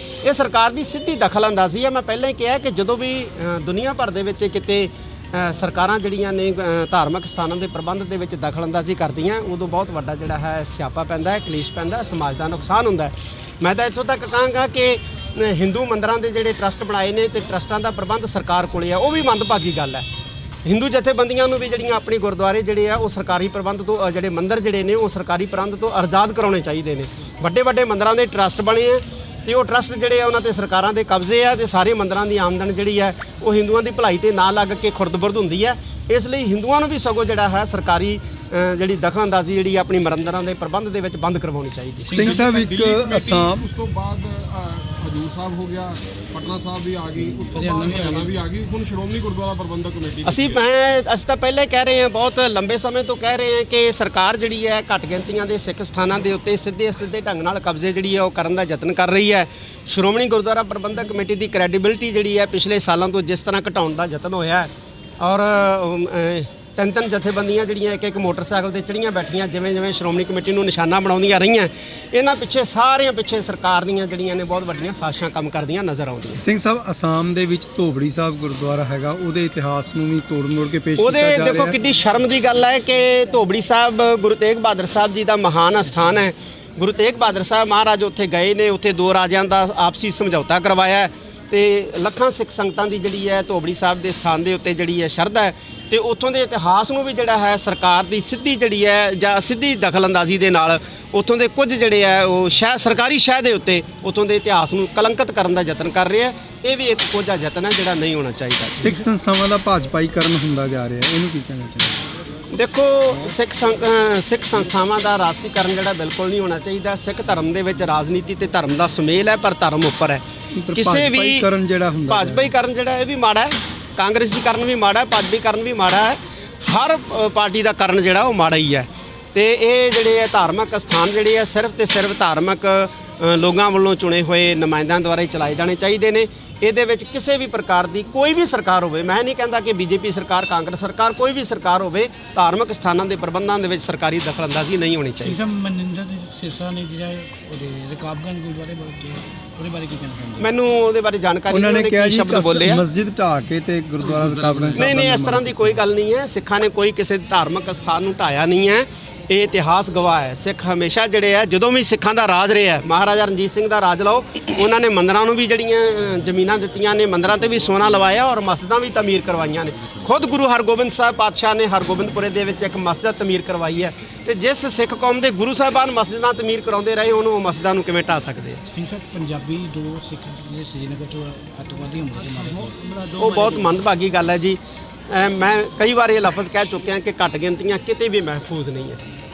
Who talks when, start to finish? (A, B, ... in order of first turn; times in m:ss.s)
0:00.2-0:20.0 A
0:20.6-0:42.1 A
0:42.1-0:43.7 B
0:42.2-0:50.6 C
0:47.5-0:48.4 D
0:50.2-1:16.4 A
1:16.4-1:21.8 B
1:21.0-1:48.9 A
1:48.8-1:52.0 B
1:52.5-2:01.5 A
2:00.5-2:02.5 B
2:02.1-2:25.4 A
2:25.2-2:30.5 D
2:30.4-2:32.8 A
2:31.5-2:35.8 B
2:34.0-2:34.9 D
2:34.8-2:58.6 A
2:58.7-3:03.7 D
3:03.2-3:09.0 A